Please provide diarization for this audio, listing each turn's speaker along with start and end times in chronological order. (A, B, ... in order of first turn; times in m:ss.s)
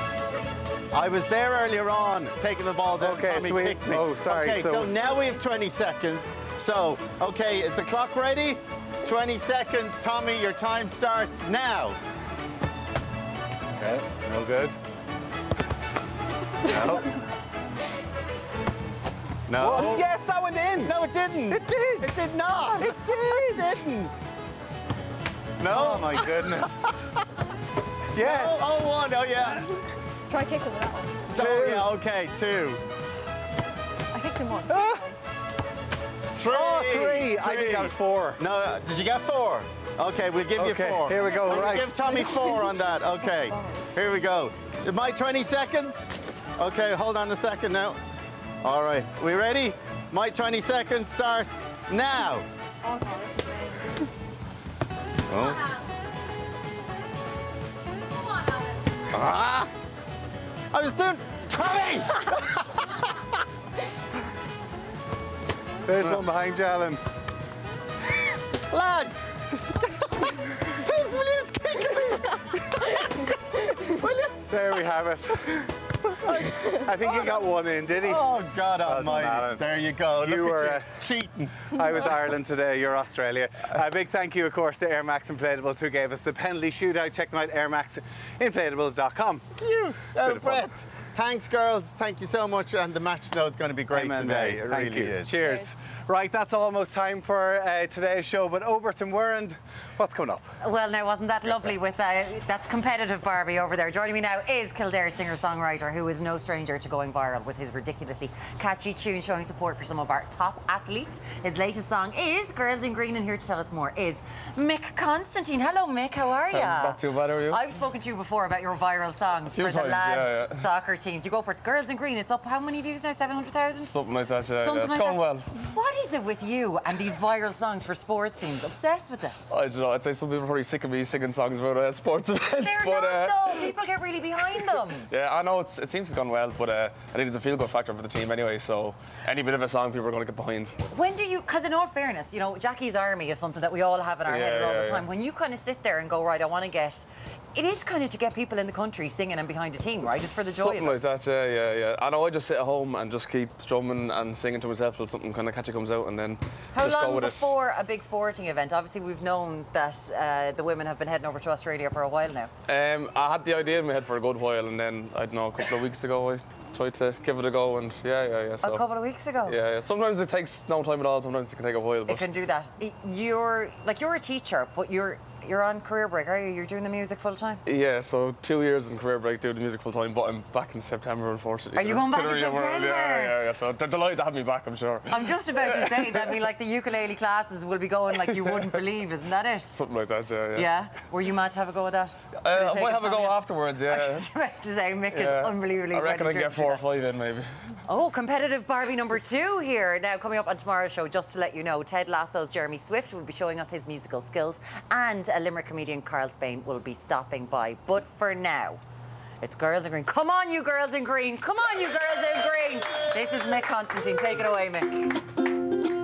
0:00.9-0:12.0 A
0:03.0-0:04.9 B
0:13.8-0:14.7 B
0:16.7-0:17.1 B
0:19.5-0:20.1 A
0:19.6-0:20.9 B
0:20.8-0:24.1 A
0:21.5-0:23.8 B
0:25.6-0:26.6 A
0:25.7-0:27.1 B
0:28.1-0:28.9 B
0:28.2-0:29.6 A
0:30.3-0:31.3 C
0:31.3-0:32.8 A
0:31.3-0:31.9 B
0:34.1-0:35.2 C
0:34.7-0:35.0 B
0:36.4-0:48.0 A
0:36.4-0:38.4 B
0:40.6-0:42.1 B
0:41.5-0:44.0 C
0:48.6-0:52.4 A
0:52.8-0:54.0 C
0:55.3-0:55.7 A
0:59.1-0:59.7 B
1:00.7-1:02.3 A
1:05.8-1:07.0 B
1:08.7-1:09.4 A
1:10.8-1:12.3 A
1:14.0-1:14.5 A
1:14.5-1:18.3 B
1:18.0-1:21.6 A
1:18.8-1:19.7 B
1:20.2-1:21.0 B
1:21.7-1:29.5 B
1:29.6-1:35.5 A
1:30.2-1:30.7 B
1:33.9-1:40.5 B
1:35.4-1:35.7 C
1:40.6-2:04.0 D
1:56.5-1:57.6 E
1:59.5-2:00.6 E
2:03.8-2:05.5 E
2:04.6-2:09.5 D
2:09.5-2:13.6 E
2:12.6-2:15.1 D
2:15.1-2:20.7 E
2:20.9-2:31.1 D
2:24.3-2:25.1 E
2:30.0-2:37.5 E
2:36.7-2:42.5 D
2:42.7-2:48.8 E
2:48.6-2:49.6 D
2:49.4-2:52.3 E
2:52.1-2:57.6 D
2:57.6-3:06.3 E
3:01.7-3:03.4 D
3:05.1-3:09.8 D
3:08.3-3:08.7 E
3:09.8-3:10.7 E
3:10.5-3:16.8 D
3:12.4-3:14.2 E
3:15.1-3:17.6 E
3:17.9-3:28.8 D
3:29.4-3:35.1 D